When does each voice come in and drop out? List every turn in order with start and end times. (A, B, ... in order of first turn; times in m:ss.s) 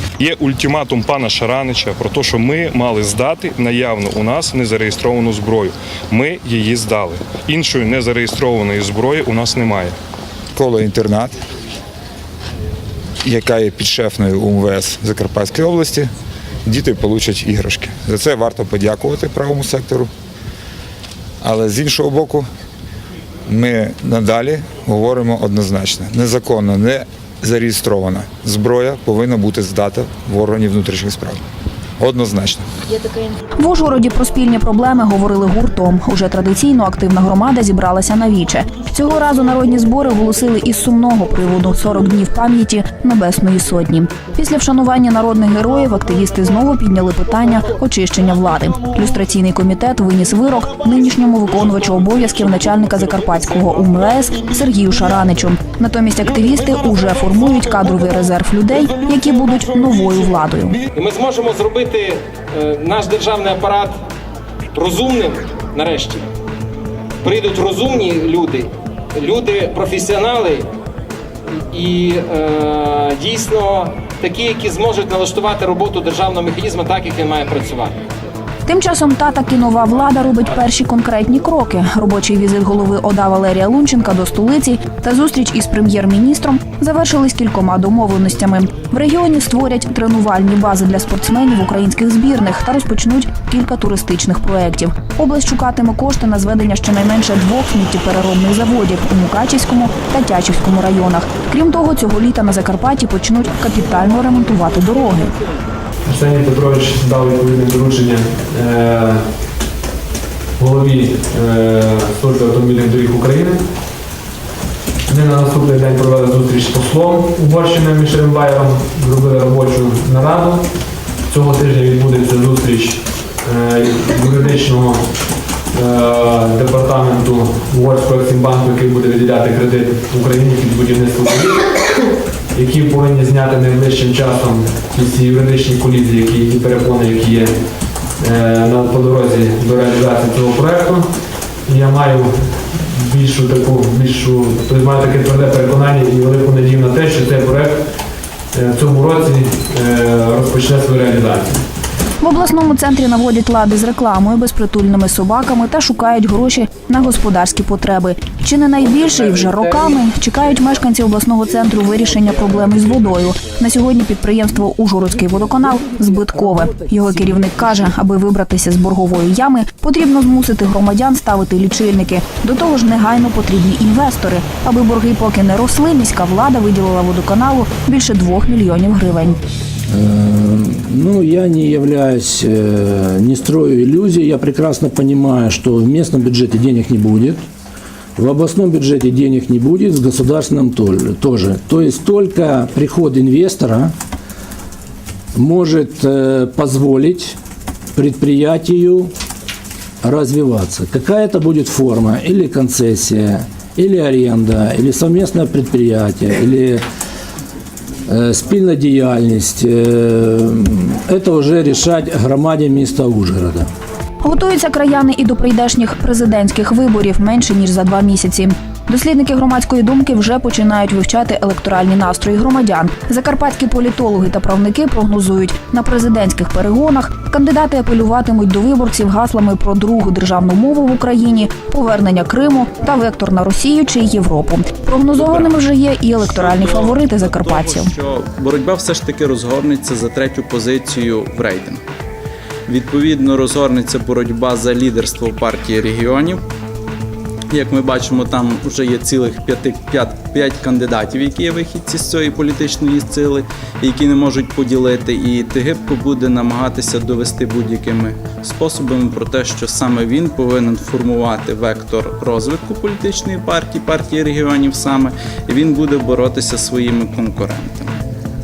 0:00.2-0:10.0 A
0:10.6-0:11.4 B
0:13.2-0:16.1 B
0:16.6-0:20.1 B
0:21.4-0:22.5 B
0:23.5-0:31.4 B
0:32.0-0:32.7 B
0:33.6-1:00.8 C
1:01.0-1:04.0 D
1:04.7-1:06.3 D
1:07.2-1:10.7 D
1:11.7-1:18.0 D
1:18.7-1:45.3 C
1:46.1-1:49.4 E
1:50.6-1:53.7 E
1:55.1-2:00.7 E
2:01.3-2:11.6 E
2:12.5-2:27.9 E
2:28.5-2:31.7 E
2:32.2-2:59.4 C
2:59.9-3:07.4 F
3:08.2-3:13.9 F
3:15.4-3:17.4 F
3:18.0-3:19.1 F
3:20.0-3:26.8 F
3:28.1-3:33.7 F
3:34.2-3:57.9 C
3:55.1-3:55.5 G
3:56.2-4:01.8 G
4:02.7-4:06.4 G
4:07.5-4:27.9 G